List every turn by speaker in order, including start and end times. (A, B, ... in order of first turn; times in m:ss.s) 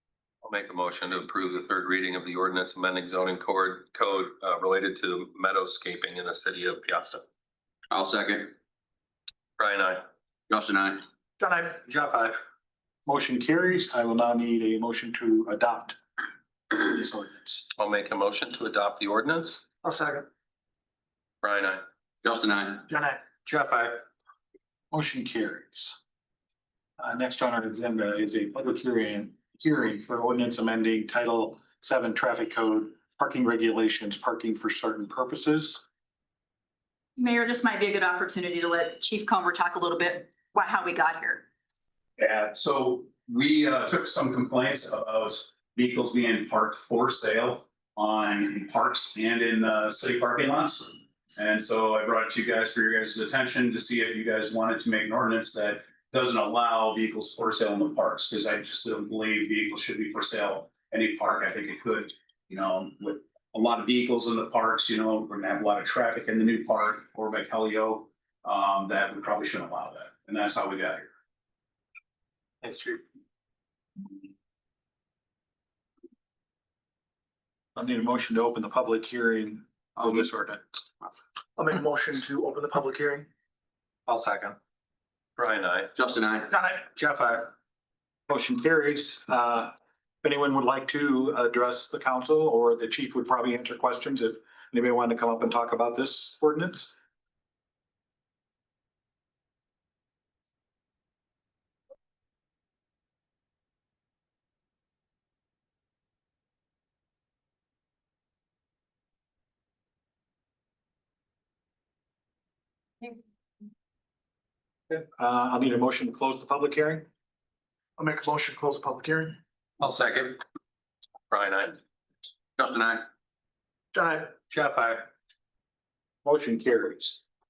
0:00.4-0:07.2 A
0:07.9-0:08.5 B
0:09.6-0:10.0 A
0:10.5-0:11.0 B
0:11.4-0:11.8 C
0:11.9-0:12.4 A
0:13.0-0:16.0 D
0:16.7-0:17.6 D
0:17.8-0:19.6 A
0:19.8-0:20.3 C
0:21.4-0:21.8 A
0:22.2-0:22.9 B
0:22.9-0:23.2 C
0:23.4-0:24.0 A
0:24.9-0:26.0 D
0:27.0-0:35.8 D
0:37.2-0:41.4 E
0:42.2-1:11.0 F
1:12.6-1:12.9 A
1:17.8-1:20.8 D
1:21.6-1:23.3 C
1:24.1-1:24.6 A
1:25.4-1:25.9 A
1:26.0-1:26.5 B
1:26.5-1:26.8 C
1:26.9-1:27.5 A
1:28.3-1:36.9 D
1:54.9-1:57.1 D
1:58.0-1:59.4 C
1:59.8-2:00.4 A
2:01.3-2:01.8 A
2:02.6-2:03.1 B
2:03.9-2:04.3 C
2:04.5-2:05.0 A
2:06.2-2:07.2 D